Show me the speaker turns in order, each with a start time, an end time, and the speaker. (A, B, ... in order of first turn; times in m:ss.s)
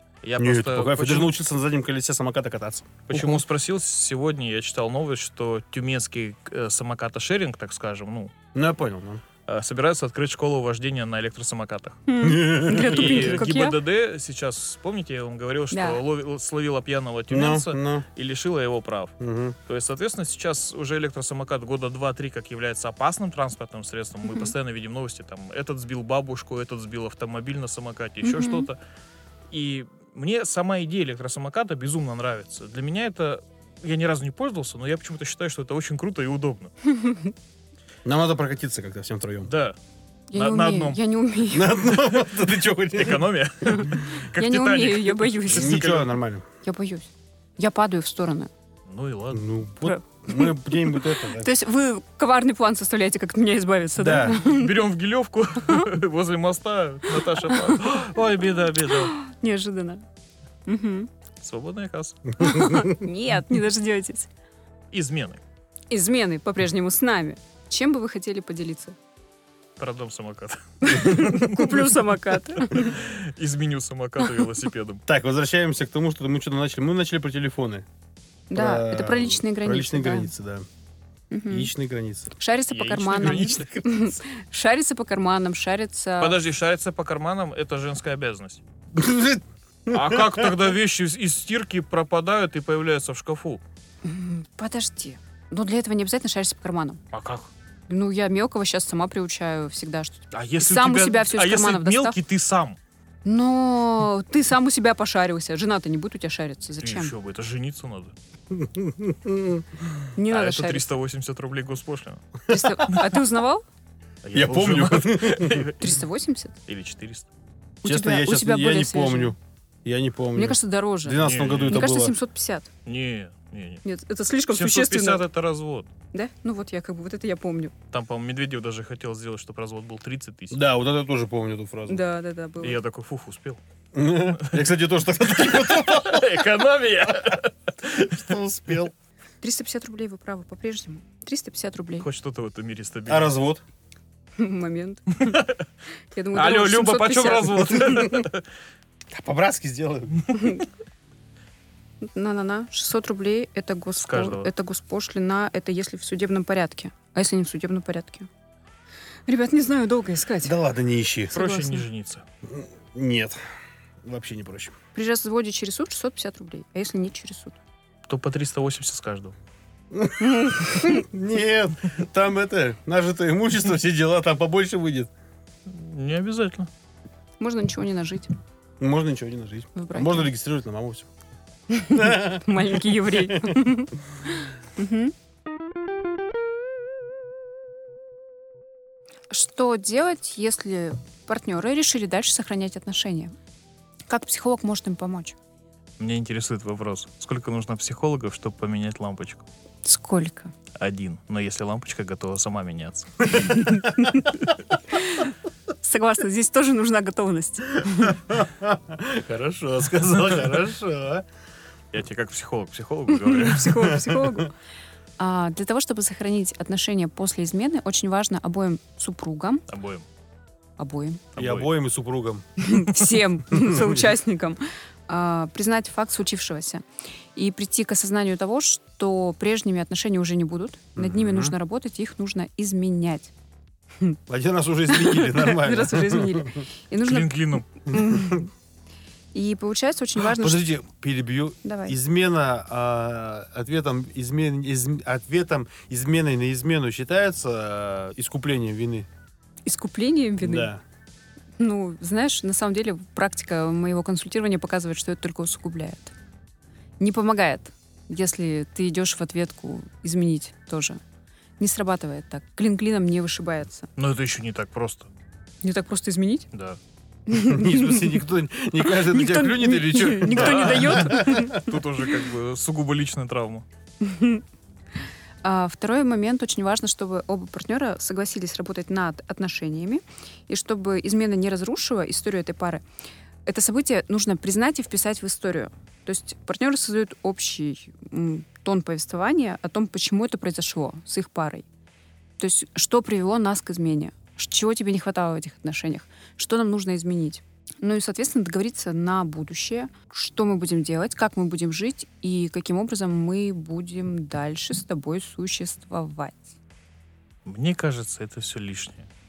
0:00.2-0:01.3 A
0:00.4-0:03.4 B
0:03.1-0:08.3 A
0:08.5-0:09.2 B
0:09.5-0:12.0 A
0:12.1-0:13.8 C
0:12.2-0:13.4 B
0:12.8-0:19.2 A
0:15.7-0:16.0 C
0:17.3-0:18.1 B
0:19.2-0:19.6 B
0:19.7-0:28.8 A
0:28.2-0:28.7 C
0:29.5-0:36.7 A
0:36.8-0:37.3 C
0:38.0-0:39.5 B
0:39.5-0:39.8 A
0:40.3-0:41.9 C
0:40.4-0:41.0 A
0:41.5-0:43.3 B
0:42.1-0:46.1 A
0:43.7-0:45.8 C
0:45.5-0:46.4 B
0:46.6-0:48.5 C
0:48.9-0:49.4 A
0:49.3-0:51.5 B
0:49.8-0:54.8 C
0:54.0-0:54.4 B
0:54.2-0:59.1 A
0:57.5-0:58.0 C
0:58.9-1:00.0 C
1:00.7-1:01.1 C
1:01.4-1:02.2 A
1:02.4-1:04.3 C
1:04.9-1:05.4 A
1:05.9-1:09.0 C
1:09.8-1:15.0 A
1:10.8-1:13.0 C
1:11.0-1:11.4 B
1:15.1-1:17.9 B
1:18.5-1:20.3 C
1:18.5-1:20.6 B
1:21.3-1:21.7 C
1:21.5-1:22.3 B
1:22.4-1:26.4 C
1:22.7-1:24.1 A
1:26.2-1:28.6 A
1:28.9-1:30.7 B
1:29.9-1:33.6 A
1:34.0-1:37.0 C
1:37.1-1:37.5 A
1:37.9-1:42.2 C
1:40.3-1:42.8 A
1:43.2-1:47.1 C
1:46.8-1:48.1 A
1:48.5-1:49.8 B
1:50.2-1:50.9 C
1:50.3-1:52.2 A
1:52.5-1:53.6 C
1:54.2-1:55.9 A
1:54.3-1:55.7 B
1:55.8-1:56.6 C
1:56.7-1:57.3 A
1:57.8-1:59.4 C
1:57.8-2:02.1 B
2:00.4-2:02.7 C
2:01.2-2:01.9 A
2:02.9-2:03.8 A
2:03.8-2:05.2 C
2:04.5-2:05.9 A
2:06.1-2:07.7 C
2:07.9-2:10.6 A
2:10.5-2:12.0 B
2:11.9-2:12.8 C
2:12.6-2:13.6 A
2:13.9-2:16.4 B
2:14.4-2:14.6 A
2:15.3-2:18.2 A
2:17.8-2:18.9 B
2:19.4-2:22.1 C
2:22.0-2:23.3 A
2:23.1-2:23.6 B
2:24.4-2:25.4 C
2:25.2-2:25.6 A
2:26.1-2:28.1 C
2:26.3-2:28.4 A
2:29.1-2:30.5 B
2:30.3-2:30.6 C
2:32.1-2:38.3 C
2:34.0-2:34.5 A
2:39.3-2:40.6 C
2:40.4-2:41.3 B
2:41.3-2:41.9 C
2:41.3-2:42.2 A
2:42.5-2:43.4 B
2:44.0-2:44.8 B
2:45.0-2:47.6 C
2:48.1-2:49.3 A
2:49.9-2:55.1 B
2:50.2-2:51.0 C
2:55.7-2:56.7 A
2:57.4-2:58.3 C
2:58.8-3:01.1 B
2:59.8-3:00.3 C
3:01.7-3:05.1 C
3:01.9-3:03.5 B
3:09.3-3:13.4 C
3:14.1-3:15.4 C
3:16.0-3:19.4 A
3:19.8-3:20.5 C
3:20.8-3:23.8 A
3:23.5-3:23.8 C
3:24.9-3:28.2 C
3:28.0-3:31.2 B
3:31.9-3:34.0 A
3:33.1-3:34.5 C
3:34.2-3:34.4 B
3:35.2-3:39.6 C
3:39.7-3:40.1 A
3:40.8-3:41.3 C
3:41.4-3:41.7 A
3:41.4-3:42.5 B
3:42.6-3:46.8 C
3:43.5-3:44.0 B
3:47.4-3:53.3 C
3:51.0-3:51.5 B
3:54.3-3:56.6 B
3:54.9-3:58.5 C
3:57.1-3:57.7 A
3:59.3-4:00.8 C
4:00.2-4:09.1 B
4:01.6-4:02.0 C
4:09.7-4:10.7 C
4:10.4-4:10.8 B
4:11.6-4:16.1 C
4:17.0-4:21.0 C
4:21.6-4:23.9 C
4:24.0-4:25.1 A
4:25.6-4:26.5 C
4:26.5-4:26.8 A
4:27.3-4:28.2 C
4:27.3-4:31.7 B
4:28.8-4:31.7 C
4:30.3-4:33.6 A
4:34.0-4:34.4 C
4:35.4-4:42.8 C
4:43.5-4:51.6 C
4:52.4-5:06.5 C
5:07.4-5:09.1 A